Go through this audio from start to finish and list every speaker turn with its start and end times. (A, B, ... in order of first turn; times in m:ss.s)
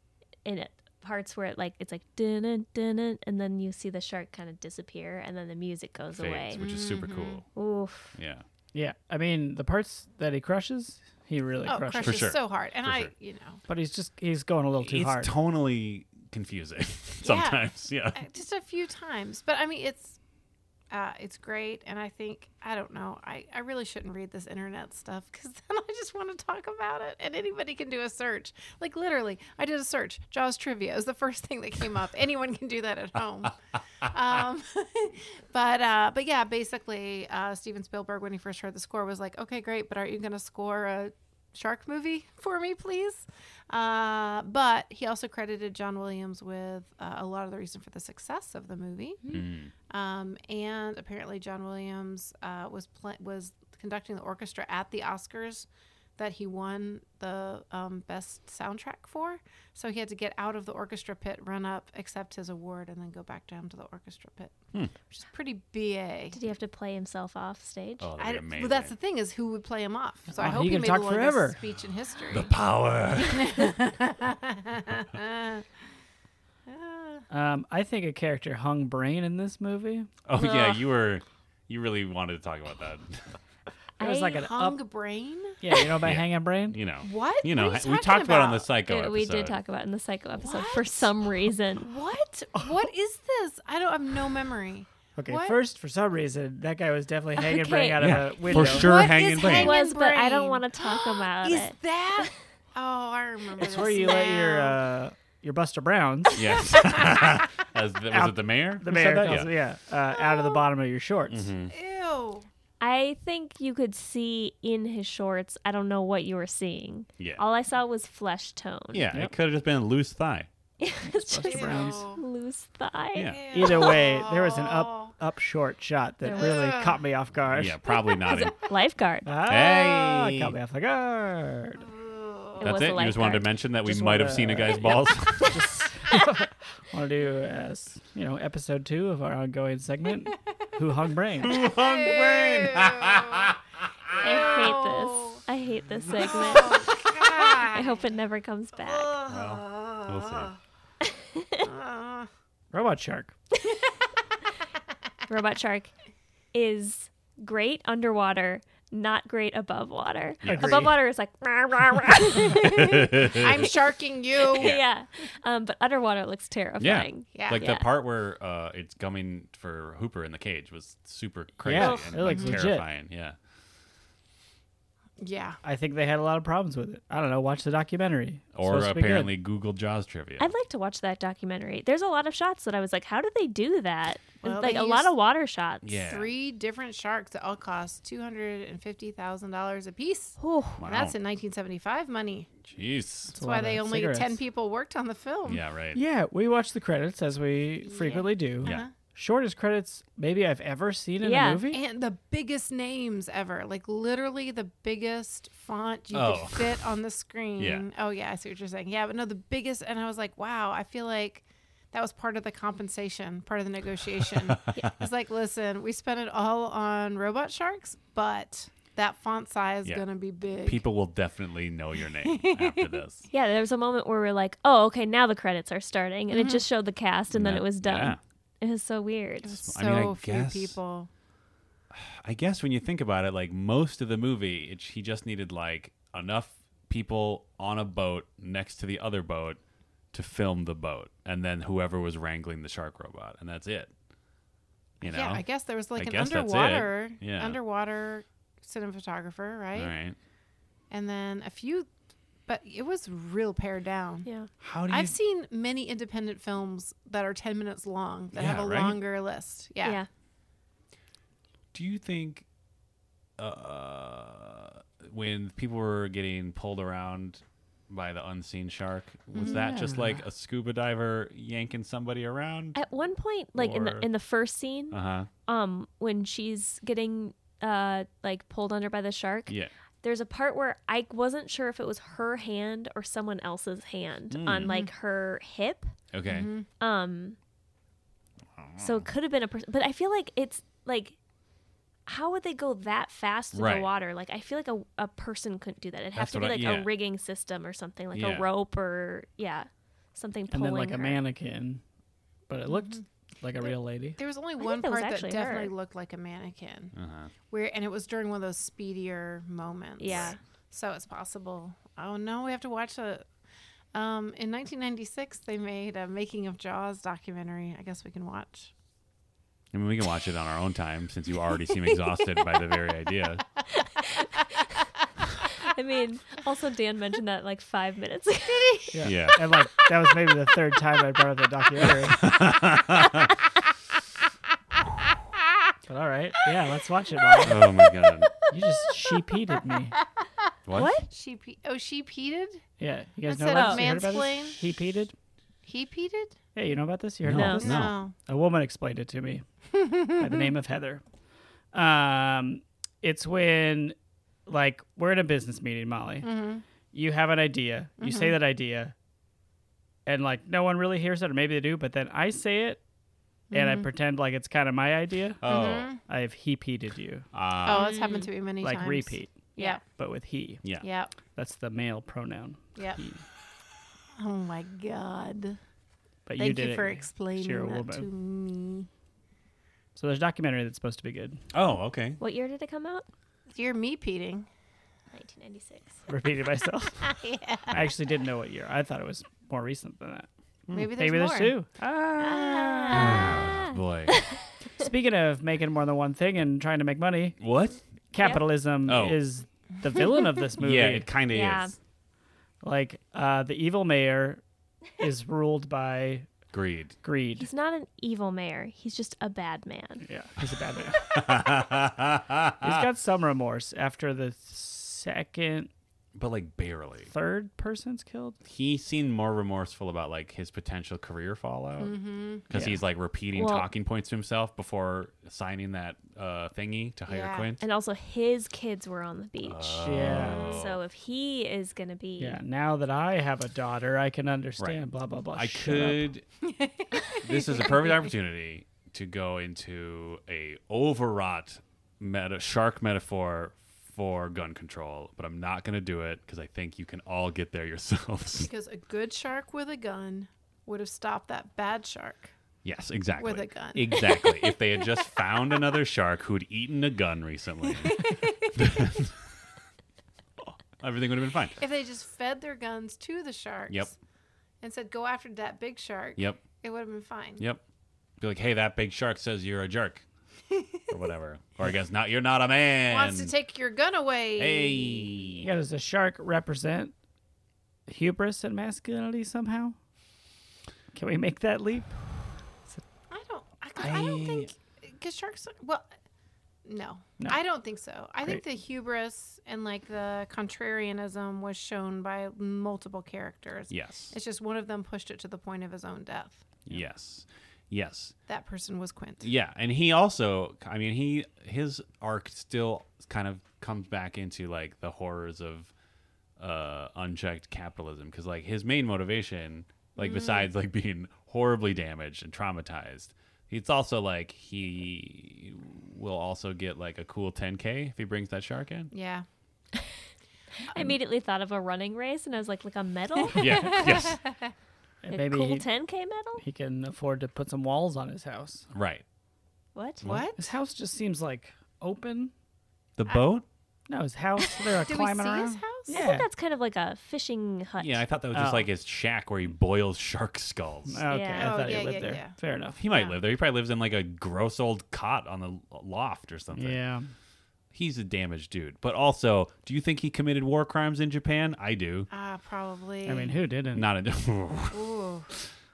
0:00.4-0:06.6 A
0:06.1-0:07.4 B
0:06.6-0:07.4 C
0:07.6-0:08.1 A
0:08.1-0:08.4 B
0:08.7-0:12.2 D
0:11.6-0:13.6 C
0:12.0-0:13.1 B
0:13.7-0:15.3 D
0:14.8-0:18.2 B
0:17.2-0:20.2 C
0:20.9-1:04.6 C
0:49.3-0:49.7 B
1:05.1-1:06.4 C
1:06.3-1:08.1 A
1:08.0-1:08.9 B
1:08.2-1:12.5 C
1:10.4-1:11.6 D
1:12.3-1:13.7 B
1:13.2-1:15.6 C
1:16.7-1:17.2 C
1:17.3-1:20.1 D
1:20.2-1:23.4 B
1:20.4-1:20.8 A
1:24.0-1:24.8 D
1:24.0-1:24.4 A
1:24.0-1:25.6 C
1:25.6-1:26.8 D
1:26.0-1:29.6 B
1:27.0-1:28.7 C
1:28.9-1:31.9 A
1:30.4-1:31.2 C
1:31.8-1:35.6 C
1:35.2-1:38.9 D
1:37.4-1:38.8 A
1:38.0-1:39.8 B
1:38.5-1:44.8 C
1:39.4-1:42.3 A
1:43.6-1:46.4 D
1:46.4-1:49.5 B
1:48.1-1:51.5 D
1:50.1-1:50.6 C
1:51.3-1:51.7 B
1:51.7-1:52.5 C
1:52.8-1:59.1 A
1:58.9-2:00.5 B
2:00.8-2:04.0 A
2:01.0-2:02.0 D
2:01.4-2:02.2 C
2:03.1-2:03.4 B
2:03.2-2:05.1 C
2:03.5-2:07.8 D
2:06.2-2:06.6 A
2:06.3-2:07.0 C
2:07.5-2:08.7 B
2:08.1-2:09.3 A
2:09.2-2:11.8 D
2:09.4-2:10.5 B
2:11.8-2:12.9 C
2:12.6-2:13.5 A
2:12.6-2:15.6 B
2:13.8-2:21.6 D
2:21.4-2:23.5 B
2:21.4-2:23.5 C
2:24.1-2:25.4 C
2:24.2-2:29.1 A
2:26.1-2:28.0 C
2:28.8-2:30.6 C
2:29.3-2:30.5 B
2:31.0-2:31.7 A
2:31.6-2:32.3 C
2:32.7-2:33.3 D
2:35.3-2:35.9 A
2:36.5-2:43.3 A
2:40.4-2:40.9 B
2:40.4-2:40.9 D
2:42.4-2:43.7 B
2:42.4-2:44.8 C
2:44.5-2:47.9 A
2:44.5-2:44.8 B
2:46.8-2:53.4 B
2:47.3-2:47.7 C
2:51.6-2:52.8 D
2:51.8-2:52.1 A
2:52.2-2:52.6 C
2:55.2-2:55.6 C
2:55.6-2:59.3 D
2:58.5-3:00.5 B
3:00.4-3:06.0 A
3:04.4-3:05.1 C
3:05.8-3:06.3 B
3:06.0-3:12.5 C
3:10.4-3:10.8 A
3:10.8-3:11.2 B
3:12.6-3:13.3 B
3:13.3-3:14.4 D
3:13.3-3:15.6 C
3:15.4-3:16.0 B
3:15.9-3:21.8 D
3:17.9-3:18.9 C
3:21.2-3:21.6 A
3:21.7-3:40.8 C
3:26.1-3:26.8 B
3:27.6-3:27.8 B
3:40.6-3:43.3 B
3:42.2-3:43.0 C
3:43.3-3:49.6 A
3:46.3-3:46.6 C
3:47.3-3:48.2 B
3:49.4-3:51.1 C
3:49.6-3:50.8 B
3:51.9-3:59.6 B
4:00.1-4:03.9 B
4:05.0-4:05.4 B
4:05.0-4:09.9 C
4:06.0-4:07.6 B
4:09.7-4:10.2 B
4:10.9-4:11.9 C
4:12.5-4:14.3 C
4:14.2-4:14.5 A
4:14.6-4:15.1 B
4:14.9-4:20.0 C
4:18.3-4:19.0 B
4:19.8-4:20.1 A
4:21.7-4:22.4 B
4:23.4-4:32.8 B
4:29.3-4:29.6 C
4:29.5-4:30.2 D
4:32.7-4:45.9 A
4:33.6-4:34.1 B
4:34.9-4:35.3 B
4:44.3-4:44.7 B
4:44.6-4:44.9 C
4:46.1-4:46.5 B
4:46.3-4:46.7 C
4:46.8-4:47.4 A
4:48.5-4:49.0 B
4:48.8-4:51.2 A
4:52.0-5:01.2 A
4:53.5-4:53.9 B
4:56.1-4:56.9 B
4:58.1-4:58.5 B
5:00.5-5:01.8 D
5:02.5-5:04.2 D
5:02.6-5:03.0 C
5:03.6-5:06.9 C
5:04.6-5:05.7 A
5:06.9-5:07.3 B
5:07.5-5:13.2 C
5:10.0-5:10.4 A
5:10.1-5:10.4 B
5:13.9-5:18.7 C
5:19.7-5:23.5 B
5:23.8-5:24.4 A
5:25.5-5:28.9 A
5:28.9-5:32.2 D
5:29.0-5:29.4 B
5:32.1-5:33.3 B
5:35.9-5:37.6 D
5:37.4-5:38.3 B
5:37.6-5:38.1 C
5:38.5-5:40.0 D
5:40.7-5:41.0 B
5:40.7-5:41.1 A
5:41.1-5:42.6 C
5:42.8-5:45.1 D
5:43.2-5:44.6 C
5:43.5-5:43.9 A
5:45.6-5:46.4 C
5:46.5-5:49.4 D
5:47.2-5:48.0 B
5:47.3-5:47.7 A
5:47.6-5:48.1 C
5:49.7-5:50.5 C
5:50.2-5:51.0 D
5:51.7-5:56.3 D
5:56.2-5:56.6 C
5:56.9-5:58.9 D
5:58.0-5:58.4 C
6:00.0-6:02.8 D
6:03.5-6:03.9 C
6:03.5-6:07.2 D
6:05.4-6:05.9 B
6:05.4-6:06.0 C
6:07.3-6:07.9 B
6:07.6-6:09.8 C
6:07.7-6:08.3 A
6:08.6-6:09.4 D
6:09.9-6:10.6 D
6:10.8-6:11.1 C
6:11.3-6:13.2 D
6:14.2-6:15.6 C
6:16.2-6:18.1 D
6:16.4-6:18.9 C
6:19.9-6:21.4 D
6:21.5-6:22.2 B
6:22.2-6:23.1 A
6:23.5-6:24.5 C
6:25.1-6:26.0 A
6:26.1-6:27.1 D
6:27.0-6:27.8 C
6:27.7-6:30.3 D
6:30.7-6:31.6 C
6:31.0-6:33.1 D
6:32.2-6:33.3 C
6:32.7-6:34.4 A
6:32.9-6:34.2 B
6:34.8-6:37.4 D
6:37.4-6:37.8 B
6:38.1-6:41.1 D
6:38.2-6:38.4 A
6:38.8-6:39.2 B
6:40.6-6:41.8 B
6:41.3-6:41.7 A
6:42.6-6:44.4 D
6:45.0-6:46.3 D
6:46.5-6:47.0 B
6:47.0-6:47.5 D
6:47.4-6:50.0 A
6:50.0-6:51.2 D
6:51.0-6:52.8 B
6:52.6-6:55.7 D
6:56.1-6:57.1 B
6:57.1-6:58.4 D
6:58.4-7:01.9 B
7:01.8-7:02.4 C
7:02.5-7:07.6 B
7:02.5-7:02.8 D
7:03.3-7:03.7 A
7:07.1-7:07.5 C
7:07.6-7:12.4 A
7:09.4-7:10.8 B
7:09.8-7:10.5 D
7:10.3-7:10.6 C
7:12.2-7:16.1 D
7:15.3-7:16.2 B
7:16.4-7:18.1 C
7:17.1-7:28.5 B
7:28.4-7:32.3 C
7:32.6-7:39.1 B
7:33.2-7:34.6 C
7:37.8-7:38.4 C
7:40.8-7:41.6 B
7:41.6-7:43.9 C
7:44.6-7:47.4 C
7:48.2-7:50.0 B
7:50.9-7:53.3 B
7:52.9-7:55.4 C
7:54.4-7:55.5 B
7:55.4-7:56.9 D
7:57.9-7:59.8 D
8:00.9-8:02.8 D
8:03.1-8:05.9 C
8:03.8-8:04.5 B
8:06.6-8:16.4 C
8:13.7-8:14.1 B
8:16.7-8:18.1 B
8:18.3-8:19.3 C
8:19.2-8:25.7 B
8:26.4-8:38.9 B
8:30.0-8:30.5 C
8:38.9-8:39.2 C
8:40.7-8:43.9 A
8:43.3-8:44.3 C
8:43.3-8:44.2 B
8:45.0-8:45.7 D
8:45.1-8:46.4 A
8:46.4-8:48.7 D
8:48.7-8:49.0 B
8:49.7-8:50.0 A
8:50.0-8:50.3 B
8:50.0-8:50.4 C
8:50.4-8:52.3 D
8:53.0-8:53.4 B
8:53.9-8:56.2 D
8:54.8-8:56.0 C
8:55.9-8:58.0 A
8:57.8-9:01.0 B
8:58.3-8:58.7 D
9:00.9-9:02.8 D
9:01.1-9:01.7 A
9:01.4-9:03.2 C
9:02.8-9:06.8 B
9:06.5-9:07.1 D
9:07.7-9:12.1 B
9:12.1-9:13.4 C
9:13.0-9:13.9 D
9:13.7-9:14.9 B
9:14.7-9:15.3 C